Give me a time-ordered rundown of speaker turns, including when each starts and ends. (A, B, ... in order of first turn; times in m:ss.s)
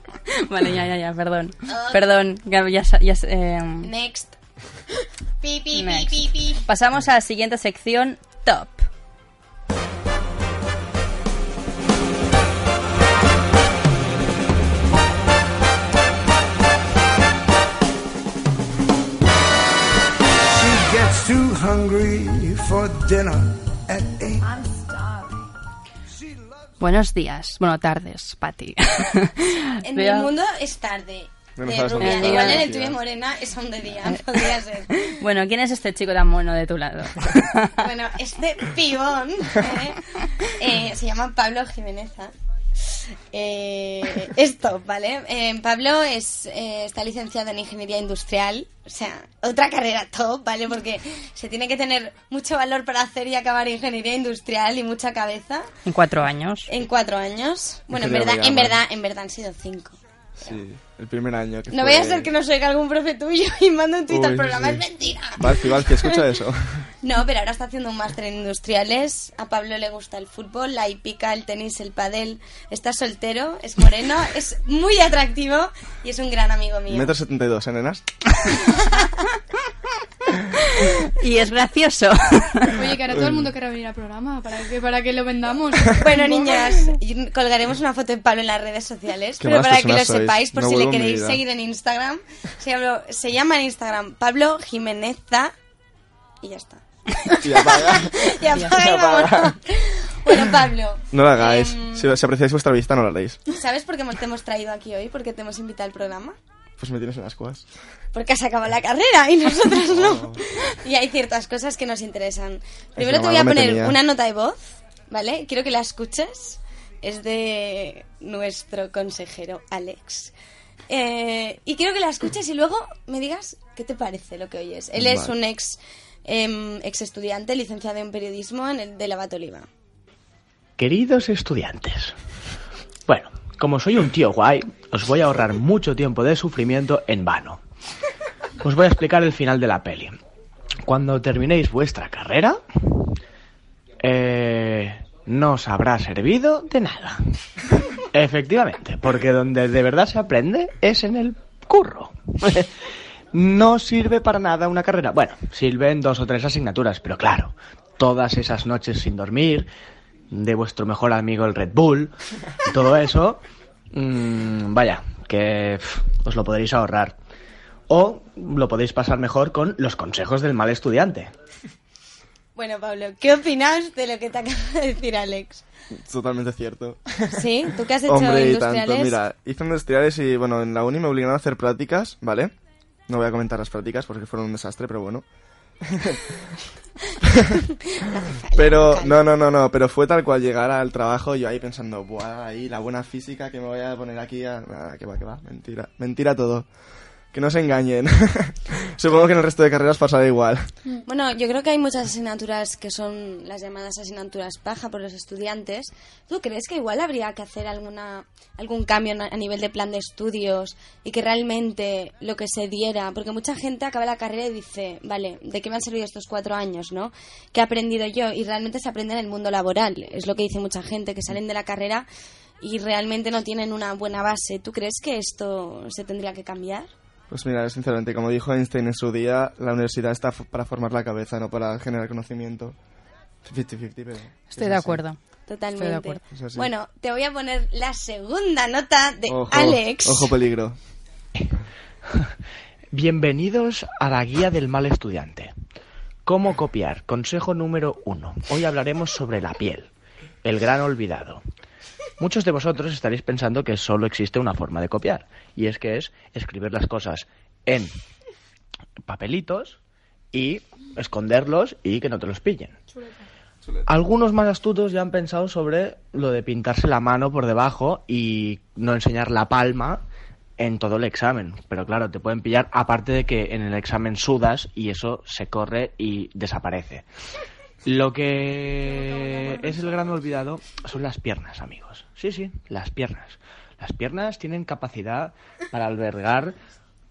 0:00.3-0:03.9 A
0:01.7-0:02.0 B
0:03.8-0:04.4 B
0:05.4-0:06.6 B
0:05.7-0:08.8 A
0:20.5-0:24.5 C
0:26.8-0:30.3 A
0:29.8-0:35.2 B
0:31.6-0:33.0 D
0:32.0-0:32.7 A
0:35.0-0:37.8 A
0:37.8-0:55.7 B
0:55.8-0:56.7 A
0:56.7-1:00.6 B
0:57.9-0:58.8 D
1:00.4-1:02.3 D
1:01.7-1:06.2 B
1:04.1-1:04.8 D
1:05.4-1:06.8 D
1:07.0-1:17.1 B
1:16.9-1:18.0 D
1:18.6-1:19.1 B
1:20.8-1:22.8 A
1:22.7-1:26.7 E
1:23.1-1:23.5 D
1:25.9-1:35.5 B
1:29.4-1:31.4 D
1:36.4-1:36.8 B
1:37.4-1:39.6 D
1:37.4-1:42.1 B
1:41.1-1:43.4 D
1:43.5-1:46.4 B
1:46.8-1:47.6 D
1:48.1-2:00.3 B
1:49.8-1:50.4 D
1:53.0-1:54.0 D
2:00.9-2:09.7 B
2:05.0-2:05.3 D
2:10.8-2:12.1 F
2:13.1-2:17.6 F
2:18.6-2:20.2 F
2:20.8-2:22.6 F
2:24.0-2:27.2 F
2:28.1-2:32.7 F
2:33.3-2:39.7 F
2:40.3-2:42.1 F
2:42.7-2:43.4 F
2:43.9-2:47.1 F
2:47.9-2:51.3 F
2:52.6-2:55.6 B
2:56.0-2:57.4 D
2:57.3-2:59.2 B
2:58.1-3:02.5 D
3:03.1-3:05.2 D
3:05.8-3:06.3 D
3:07.9-3:09.2 B
3:08.6-3:16.7 D
3:17.3-3:20.7 D
3:21.0-3:42.0 B
3:42.6-3:46.9 B
3:47.3-3:52.7 D
3:53.4-3:55.0 D
3:54.5-3:55.2 A
3:55.5-4:00.4 B
3:55.8-3:56.2 A
3:56.3-3:56.7 D
3:59.3-4:00.8 D
4:02.9-4:05.5 F
4:06.2-4:09.9 F
4:10.4-4:11.4 F
4:12.2-4:17.9 F
4:19.0-4:19.8 F
4:20.3-4:22.8 F
4:22.9-4:23.3 E
4:23.8-4:30.0 F
4:30.6-4:37.0 F
4:37.8-4:46.5 F
4:38.9-4:40.2 E